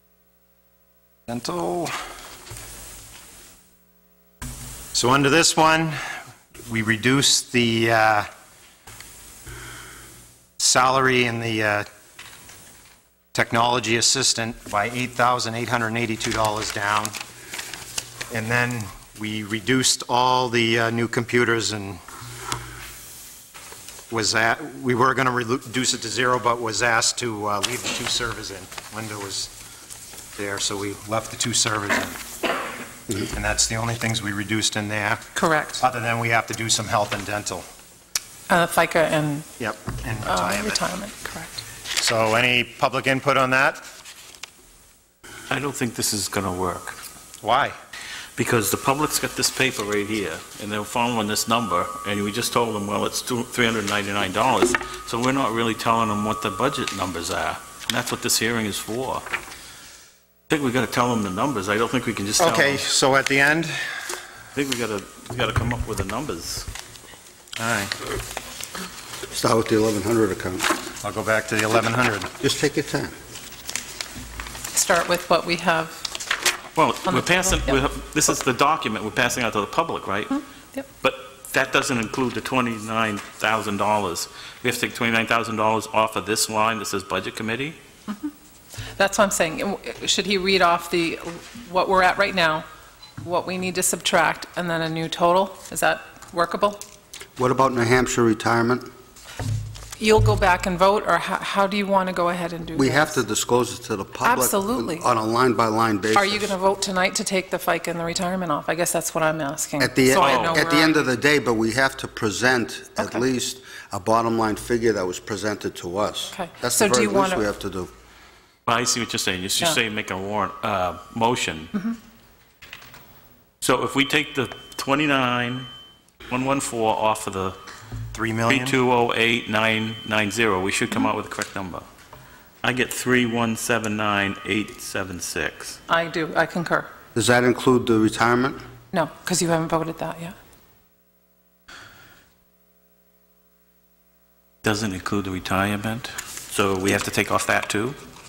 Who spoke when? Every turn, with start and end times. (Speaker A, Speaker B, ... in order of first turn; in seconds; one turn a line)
Speaker A: 1.3-1.9
Speaker A: 4.9-6.0
Speaker A: 6.7-8.3
Speaker A: 10.6-11.9
Speaker A: 13.3-17.1
Speaker A: 18.3-22.0
Speaker A: 24.1-29.5
Speaker A: 30.4-32.2
Speaker A: 33.2-35.2
Speaker B: 35.3-35.8
Speaker A: 35.8-37.6
Speaker B: 38.5-39.5
Speaker A: 39.6-40.8
Speaker B: 40.2-41.6
Speaker A: 42.0-43.8
Speaker C: 45.5-47.0
Speaker A: 47.4-47.8
Speaker C: 48.4-59.2
Speaker C: 60.5-62.8
Speaker A: 62.4-63.9
Speaker C: 64.5-66.7
Speaker A: 67.6-67.9
Speaker D: 69.3-70.7
Speaker A: 71.0-72.3
Speaker D: 72.4-73.1
Speaker B: 74.7-76.1
Speaker C: 76.8-80.4
Speaker B: 77.0-77.8
Speaker C: 81.0-87.8
Speaker B: 89.0-92.6
Speaker B: 93.2-96.8
Speaker D: 97.4-98.9
Speaker B: 100.0-103.2
Speaker D: 102.7-106.5
Speaker B: 104.2-105.0
Speaker B: 106.1-111.0
Speaker D: 109.8-117.9
Speaker C: 110.2-110.6
Speaker B: 113.0-113.2
Speaker B: 116.3-117.4
Speaker C: 118.7-121.7
Speaker C: 123.6-125.7
Speaker C: 126.3-127.6
Speaker A: 128.1-128.8
Speaker C: 128.5-131.8
Speaker C: 132.6-135.8
Speaker B: 135.9-136.9
Speaker D: 137.1-138.6
Speaker B: 138.9-140.3
Speaker C: 144.6-148.0